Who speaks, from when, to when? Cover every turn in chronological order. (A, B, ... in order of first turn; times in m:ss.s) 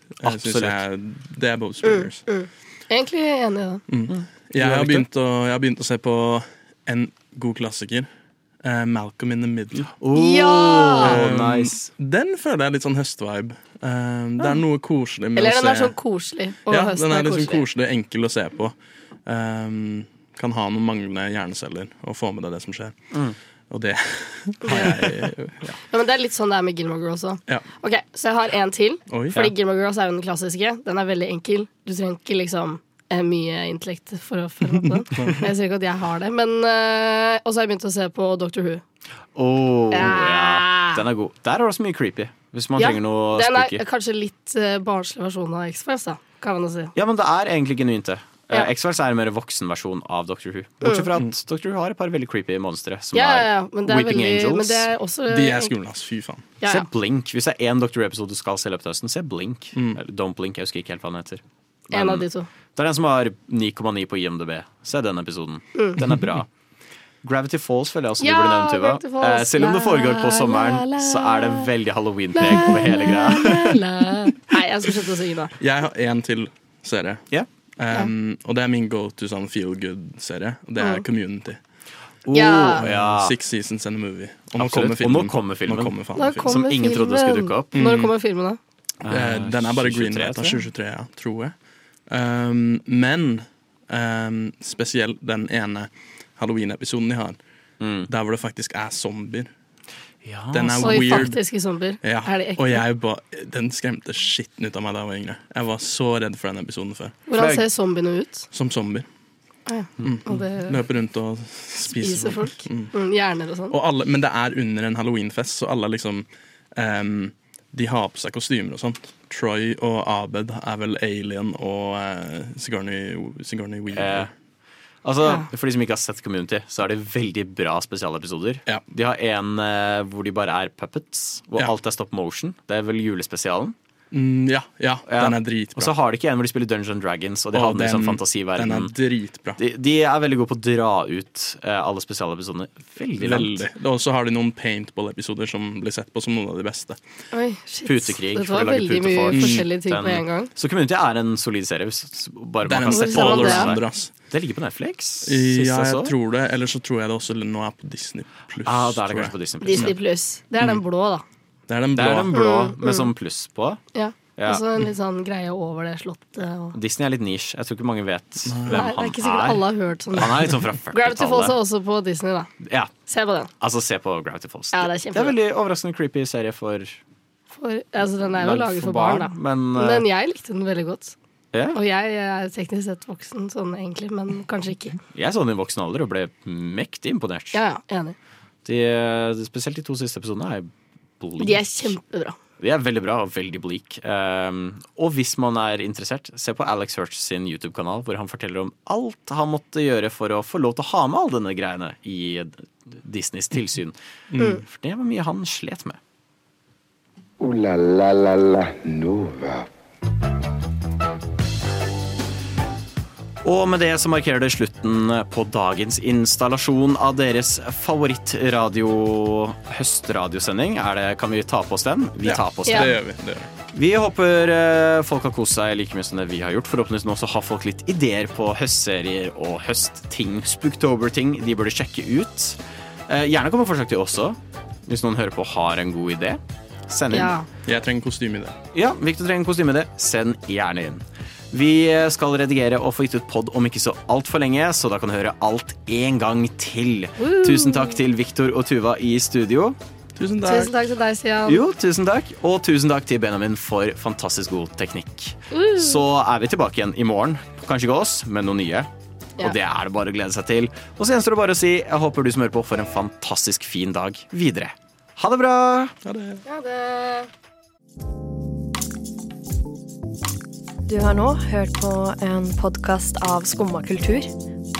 0:00.2-0:02.2 A
0:00.2-0:00.8 B
0:01.8-0:03.8 C
0:03.9-0:08.1 A
0:04.1-0:05.1 B
0:08.6-0:09.9 A
0:10.0-0:11.9 B
0:10.1-0:11.1 C
0:11.0-0:15.9 A
0:15.4-0:17.6 C
0:16.7-0:18.7 A
0:19.2-0:23.1 A
0:23.1-0:23.4 B
0:23.7-0:25.8 A
0:24.6-0:25.1 C
0:25.9-0:38.8 C
0:29.1-0:29.5 A
0:35.1-0:35.4 A
0:39.3-0:43.8 B
0:39.9-0:41.0 C
0:42.8-0:46.9 C
0:46.9-0:54.9 B
0:50.8-0:51.1 C
0:53.1-0:55.7 C
0:55.3-0:56.5 A
0:56.6-0:56.9 C
0:56.6-1:06.5 B
1:01.9-1:02.5 C
1:06.0-1:06.3 A
1:07.2-1:13.8 B
1:08.2-1:11.7 C
1:12.3-1:15.5 C
1:15.6-1:17.2 A
1:17.8-1:21.6 A
1:20.8-1:21.0 C
1:22.2-1:23.3 B
1:22.3-1:22.8 C
1:22.8-1:26.5 A
1:24.6-1:27.9 B
1:26.2-1:28.6 C
1:27.7-1:28.1 A
1:29.0-1:30.6 B
1:29.0-1:31.5 A
1:32.1-1:37.4 A
1:37.8-1:38.1 B
1:38.1-1:39.5 A
1:40.2-1:41.3 B
1:40.5-1:41.4 A
1:40.8-1:42.8 C
1:42.0-1:47.2 A
1:47.3-1:48.5 C
1:47.4-1:47.6 B
1:48.5-1:49.0 A
1:49.7-1:50.8 C
1:50.0-1:52.9 A
1:51.9-1:53.7 C
1:53.7-2:04.3 A
2:03.9-2:04.3 B
2:05.0-2:13.7 B
2:14.1-2:15.9 A
2:15.1-2:18.9 B
2:17.5-2:19.6 A
2:19.6-2:23.7 B
2:23.2-2:27.0 A
2:27.3-2:30.5 C
2:27.8-2:36.1 B
2:29.3-2:29.6 A
2:32.6-2:34.1 A
2:32.9-2:33.7 C
2:35.2-2:39.9 A
2:38.6-2:40.0 B
2:39.6-2:41.2 C
2:41.7-2:42.4 A
2:41.9-2:43.8 B
2:42.3-2:43.1 C
2:43.9-2:46.8 C
2:44.4-2:44.6 B
2:46.7-2:51.6 B
2:48.5-2:48.9 A
2:48.7-2:52.5 C
2:52.6-2:52.9 B
2:53.0-2:53.5 C
2:53.6-2:57.0 B
2:54.7-2:55.4 C
2:57.5-3:01.2 C
2:58.3-3:00.0 B
3:01.5-3:01.8 B
3:01.7-3:05.0 C
3:05.1-3:07.6 B
3:07.5-3:08.2 C
3:08.6-3:11.9 B
3:11.4-3:12.4 C
3:12.6-3:26.0 B
3:24.3-3:24.6 A
3:27.4-3:29.7 D
3:33.4-3:43.0 B
3:42.2-3:43.5 A
3:42.7-3:42.9 C
3:43.7-3:57.3 B
3:57.1-3:57.5 C
3:57.6-3:58.6 A
3:58.7-4:09.8 B
4:07.2-4:08.0 C
4:10.2-4:10.8 A
4:10.4-4:11.7 C
4:11.4-4:25.9 B
4:15.5-4:16.0 C
4:26.0-4:26.4 A
4:26.4-4:27.3 C
4:30.8-4:34.3 E